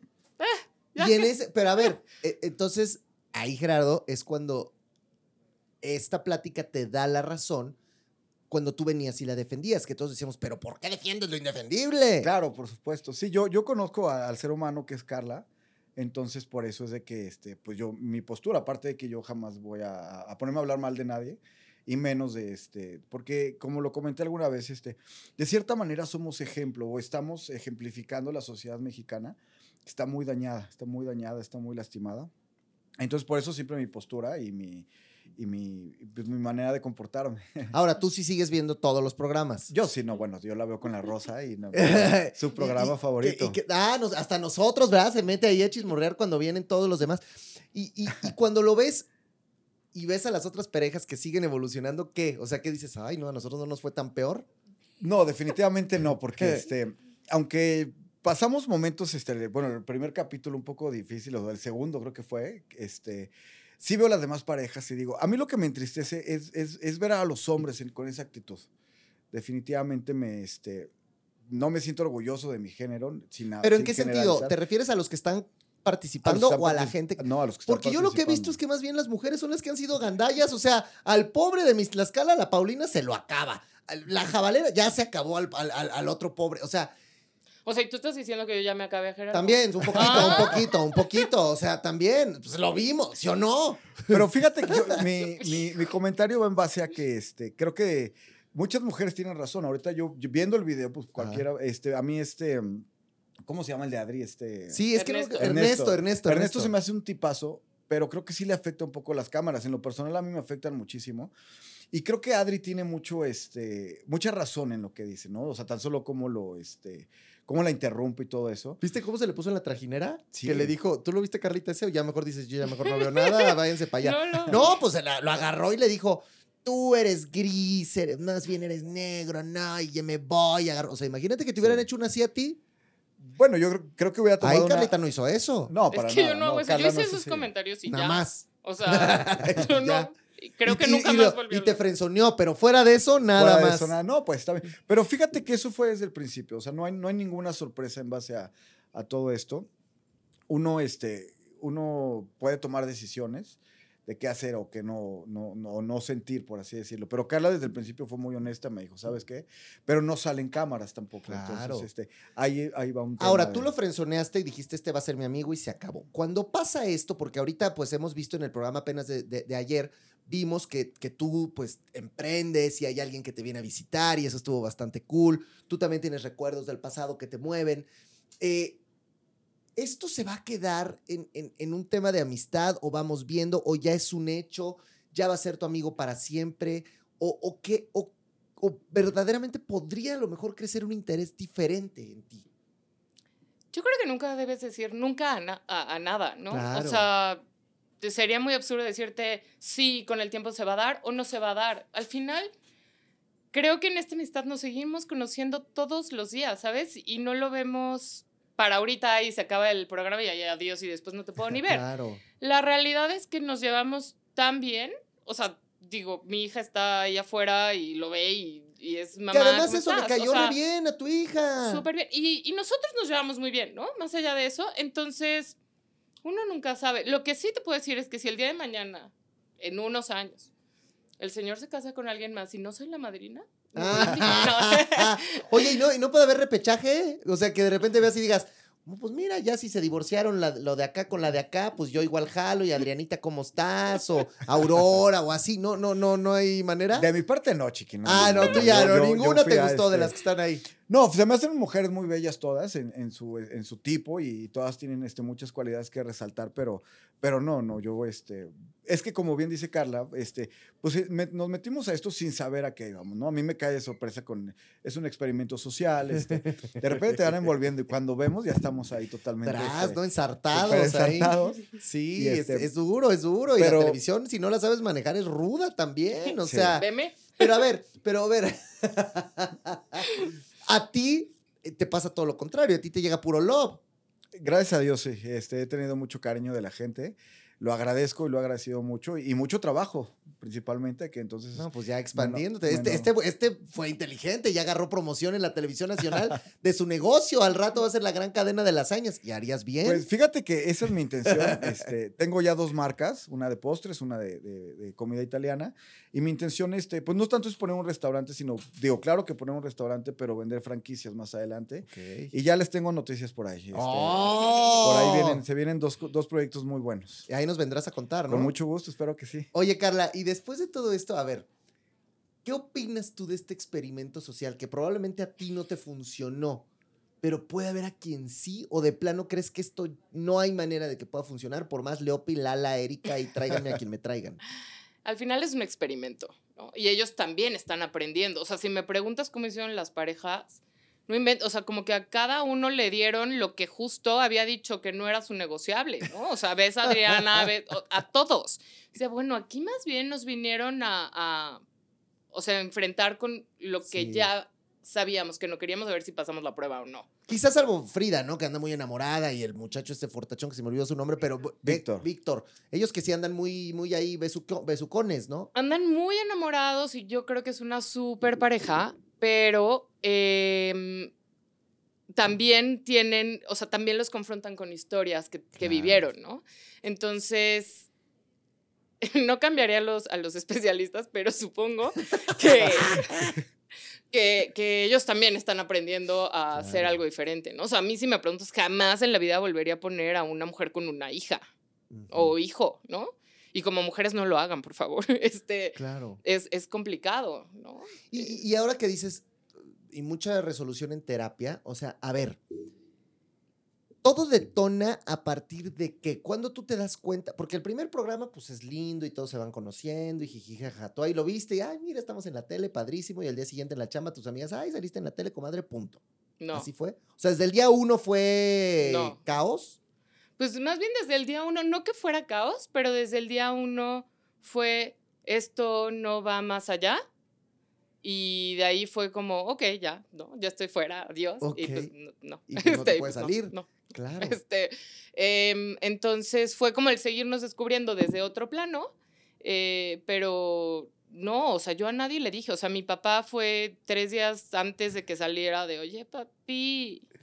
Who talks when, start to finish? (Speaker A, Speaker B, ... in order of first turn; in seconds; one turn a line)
Speaker A: 0.4-1.9
Speaker B: 1.0-4.7
Speaker B: 5.8-7.8
Speaker B: 8.5-12.3
Speaker C: 12.2-32.3
Speaker C: 33.0-37.7
Speaker B: 37.7-39.7
Speaker C: 39.7-43.6
Speaker B: 41.7-49.1
Speaker B: 49.9-54.5
Speaker C: 55.0-68.7
Speaker C: 69.3-70.9
Speaker C: 71.5-74.5
Speaker B: 73.6-86.9
Speaker C: 76.2-78.6
Speaker A: 87.6-91.2
Speaker B: 89.3-94.2
Speaker C: 90.0-90.5
Speaker C: 94.1-102.9
Speaker B: 94.7-95.0
Speaker B: 101.2-101.4
Speaker C: 103.4-104.8
Speaker B: 104.7-106.7
Speaker A: 105.0-105.5
Speaker C: 105.4-111.3
Speaker C: 111.9-118.8
Speaker B: 118.8-132.6
Speaker C: 120.3-120.7
Speaker A: 122.7-124.8
Speaker C: 131.6-131.8
Speaker C: 133.2-134.9
Speaker B: 134.4-135.7
Speaker C: 135.7-137.5
Speaker A: 135.9-141.8
Speaker B: 137.8-140.1
Speaker B: 140.6-143.9
Speaker C: 143.3-149.7
Speaker C: 150.5-163.7
Speaker B: 161.3-161.9
Speaker B: 163.2-177.9
Speaker B: 178.4-178.8
Speaker B: 179.8-192.5
Speaker A: 193.7-197.4
Speaker B: 196.5-197.1
Speaker A: 198.0-202.5
Speaker A: 203.5-211.8
Speaker B: 211.7-212.2
Speaker A: 212.4-220.6
Speaker B: 219.3-221.8
Speaker A: 221.6-225.6
Speaker A: 226.2-230.5
Speaker A: 231.2-235.7
Speaker B: 233.7-247.1
Speaker C: 246.9-250.2
Speaker B: 248.0-250.6
Speaker C: 250.8-270.0
Speaker B: 269.4-283.8
Speaker C: 270.5-272.7
Speaker C: 273.6-274.0
Speaker A: 276.2-277.6
Speaker C: 276.4-276.8
Speaker C: 284.4-293.1
Speaker B: 291.5-300.1
Speaker C: 299.8-317.3
Speaker B: 301.3-301.7
Speaker B: 311.9-312.3
Speaker B: 313.7-315.4
Speaker A: 314.4-314.8
Speaker B: 317.3-318.5
Speaker C: 318.3-319.5
Speaker B: 319.5-321.5
Speaker B: 322.4-326.6
Speaker B: 327.2-334.4
Speaker A: 335.0-351.6
Speaker A: 352.3-357.1
Speaker B: 353.9-354.3
Speaker B: 357.3-365.5
Speaker C: 361.6-362.0
Speaker A: 365.5-371.1
Speaker A: 372.1-377.9
Speaker B: 375.6-376.1
Speaker A: 379.0-383.4
Speaker B: 382.6-383.4
Speaker A: 384.1-391.5
Speaker B: 386.5-387.0
Speaker B: 391.9-392.3
Speaker A: 392.1-398.4
Speaker B: 395.8-396.2
Speaker B: 398.1-402.4
Speaker B: 404.0-416.0
Speaker A: 416.4-416.7
Speaker B: 416.5-419.8
Speaker A: 418.8-419.2
Speaker A: 420.4-427.0
Speaker A: 428.0-433.7
Speaker B: 431.4-431.9
Speaker B: 432.5-434.4
Speaker A: 434.2-447.0